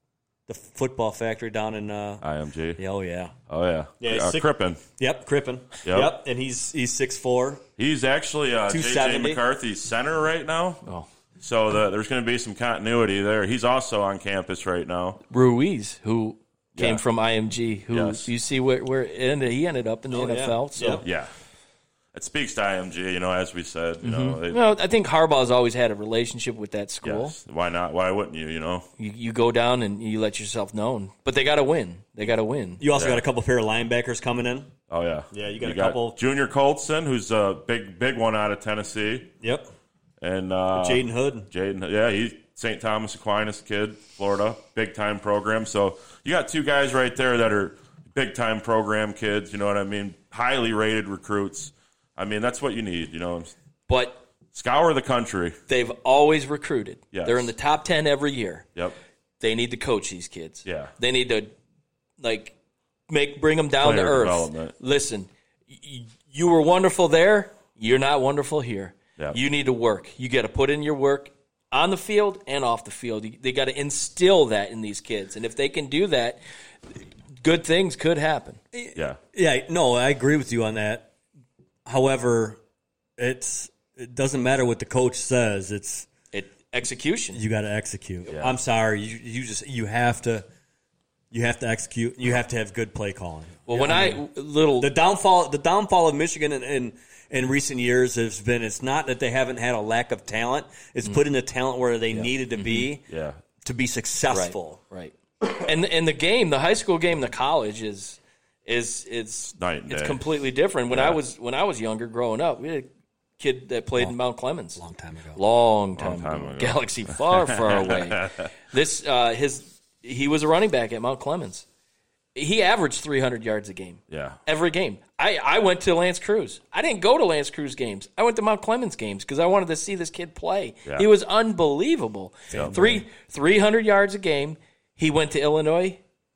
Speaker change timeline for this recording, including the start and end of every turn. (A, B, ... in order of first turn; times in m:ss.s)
0:00.5-0:02.2 A
0:02.2-0:02.8 B
0:02.8-0:03.3 A
0:03.5-0:04.8 B
0:04.0-0:07.6 A
0:05.8-0:06.1 B
0:07.8-0:10.8 B
0:08.7-0:09.4 A
0:11.4-0:15.2 B
0:15.3-0:21.0 C
0:16.7-0:17.0 B
0:17.9-0:18.3 B
0:20.1-0:21.0 A
0:21.0-0:21.3 B
0:22.1-0:24.6 B
0:24.0-0:27.3 C
0:27.0-0:28.9 B
0:29.0-0:32.8 C
0:32.8-0:34.7 A
0:32.9-0:33.2 B
0:34.9-0:39.3 B
0:35.3-0:36.2 A
0:39.4-0:39.7 A
0:40.2-0:53.5 B
0:40.7-0:41.5 A
0:53.9-0:54.2 C
0:54.5-0:55.6 B
0:55.7-0:58.7 C
0:57.1-0:57.5 B
0:59.4-1:01.5 C
1:00.6-1:00.9 B
1:02.2-1:02.5 C
1:03.1-1:16.4 C
1:03.8-1:04.7 B
1:17.4-1:18.6 C
1:18.7-1:21.1 A
1:21.8-1:22.6 A
1:23.2-1:26.1 A
1:26.3-1:27.4 C
1:27.3-1:30.4 A
1:28.3-1:28.5 B
1:31.3-1:34.2 A
1:33.7-1:34.9 C
1:34.8-1:43.0 A
1:42.1-1:42.9 C
1:43.1-1:43.4 B
1:43.6-1:44.8 A
1:44.3-1:54.8 C
1:49.6-1:50.2 B
1:50.9-1:51.2 B
1:54.8-1:55.4 A
1:55.4-2:01.6 C
1:56.0-1:58.5 B
2:02.3-2:16.0 C
2:04.1-2:04.4 B
2:12.5-2:13.0 A
2:12.5-2:12.8 B